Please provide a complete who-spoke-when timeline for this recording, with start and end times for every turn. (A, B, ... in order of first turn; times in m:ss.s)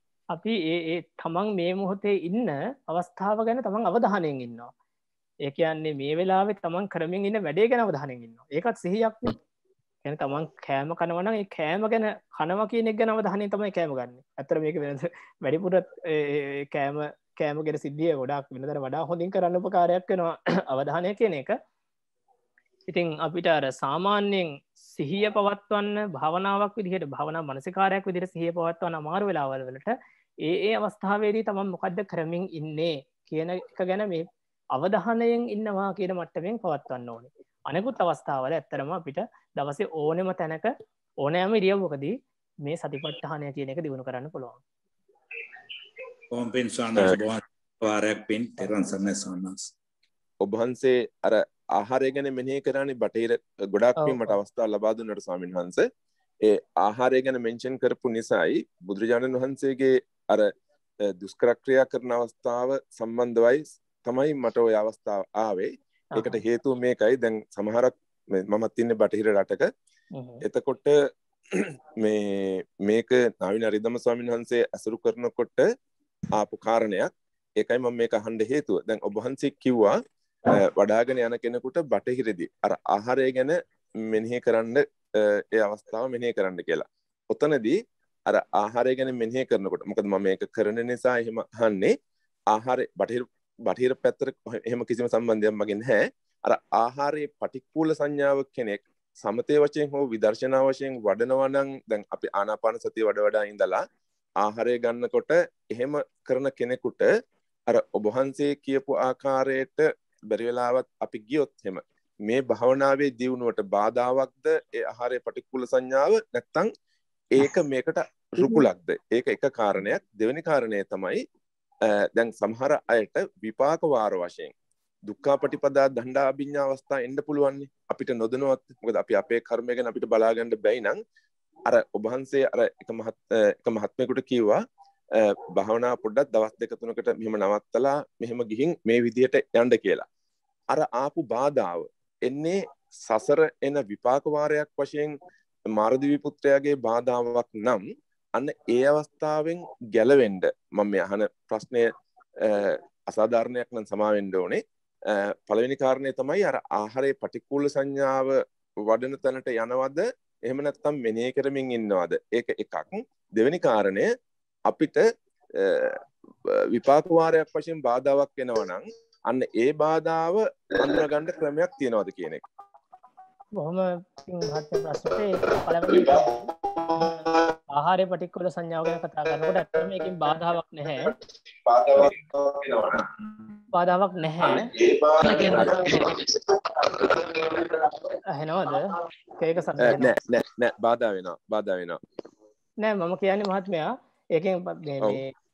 0:00.3-0:04.7 A
0:05.4-0:09.4 A
0:10.0-0:21.6 A
0:22.9-0:40.7 A
0:41.2-0:44.6 A
0:46.3-0:49.7 B
0:50.4-0:55.9 C
0:54.0-0:54.4 A
0:56.4-1:00.5 C
1:01.2-1:09.7 C
1:06.2-1:06.4 A
1:10.1-1:10.4 A
1:10.4-1:10.9 C
1:11.5-1:15.7 C
1:16.4-1:20.0 C
1:20.5-1:24.8 C
1:25.5-1:27.8 C
1:28.3-1:31.9 C
1:32.5-1:43.8 C
1:44.4-1:47.1 C
1:47.7-1:56.7 C
1:57.3-2:01.2 C
2:02.2-2:04.5 C
2:05.1-2:11.0 C
2:11.7-2:14.6 C
2:15.2-2:20.0 C
2:20.7-2:25.1 C
2:25.8-2:27.8 C
2:28.4-2:31.9 C
2:32.4-2:34.6 C
2:35.5-2:38.3 C
2:38.9-2:44.1 C
2:44.7-2:52.4 C
2:53.6-2:56.5 A
2:57.7-3:01.1 A
3:01.6-3:03.0 C
3:03.7-3:04.7 A
3:04.5-3:08.0 C
3:08.3-3:10.1 A
3:09.8-3:12.0 C
3:12.8-3:15.3 A